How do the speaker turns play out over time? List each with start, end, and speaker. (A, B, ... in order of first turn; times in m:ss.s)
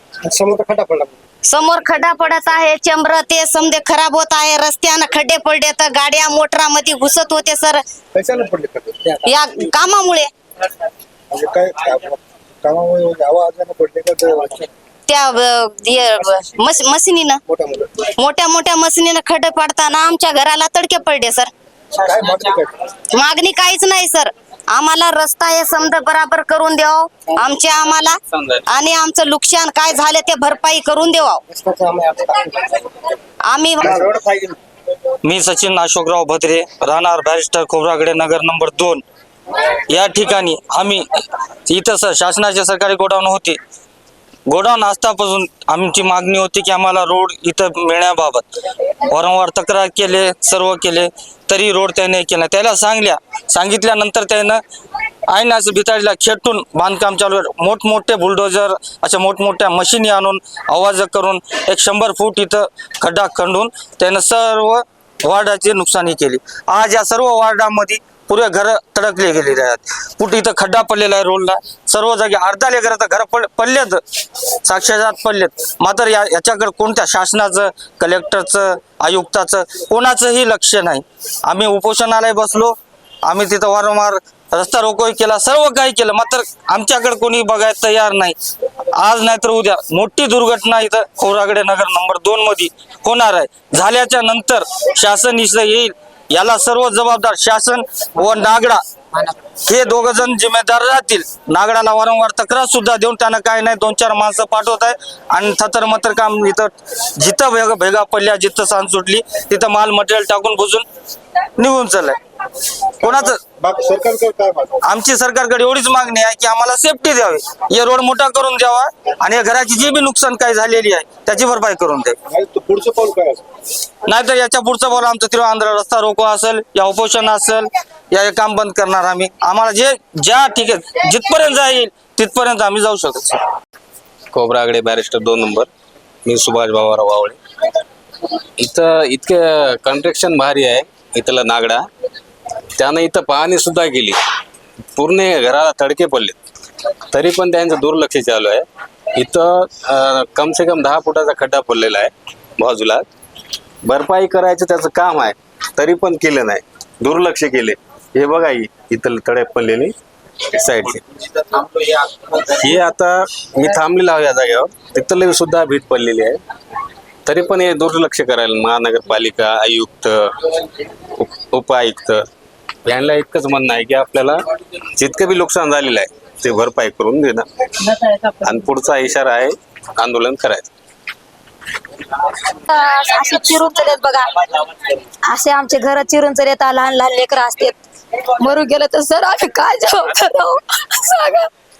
0:00.2-0:01.1 A
0:01.4-0:07.8 B
0:08.1-0:09.3 A
0:09.2-0:10.3 B
0:11.3-0:14.7 A
0:15.1-0:17.4 B
0:17.5-0:17.9 A
0:18.0-0:21.5 B
0:22.0-0:22.7 A
0:23.1-0:31.4 B
0:31.5-0:32.6 A
0:33.4-0:34.0 B
0:33.9-0:34.6 A
0:35.2-0:39.0 C
0:39.9-0:41.0 C
0:41.7-0:43.6 C
0:44.5-0:48.4 C
0:49.1-0:54.6 C
0:55.3-1:14.0 C
1:14.6-1:28.3 C
1:28.9-1:38.8 C
1:39.6-1:50.8 C
1:51.6-1:52.1 C
1:53.0-1:53.4 C
1:53.0-1:54.8 A
1:54.8-2:02.2 C
2:02.3-2:03.4 A
2:04.1-2:13.4 C
2:14.3-2:15.7 D
2:16.2-2:17.4 D
2:18.6-2:21.8 D
2:22.8-2:24.2 D
2:25.0-2:26.4 D
2:27.1-2:33.0 D
2:33.8-2:39.9 D
2:40.5-2:46.4 D
2:47.2-2:50.5 D
2:51.2-2:52.2 D
2:52.8-2:54.4 D
2:55.0-3:00.7 D
3:02.7-3:04.3 E
3:05.2-3:07.8 E
3:08.4-3:11.5 E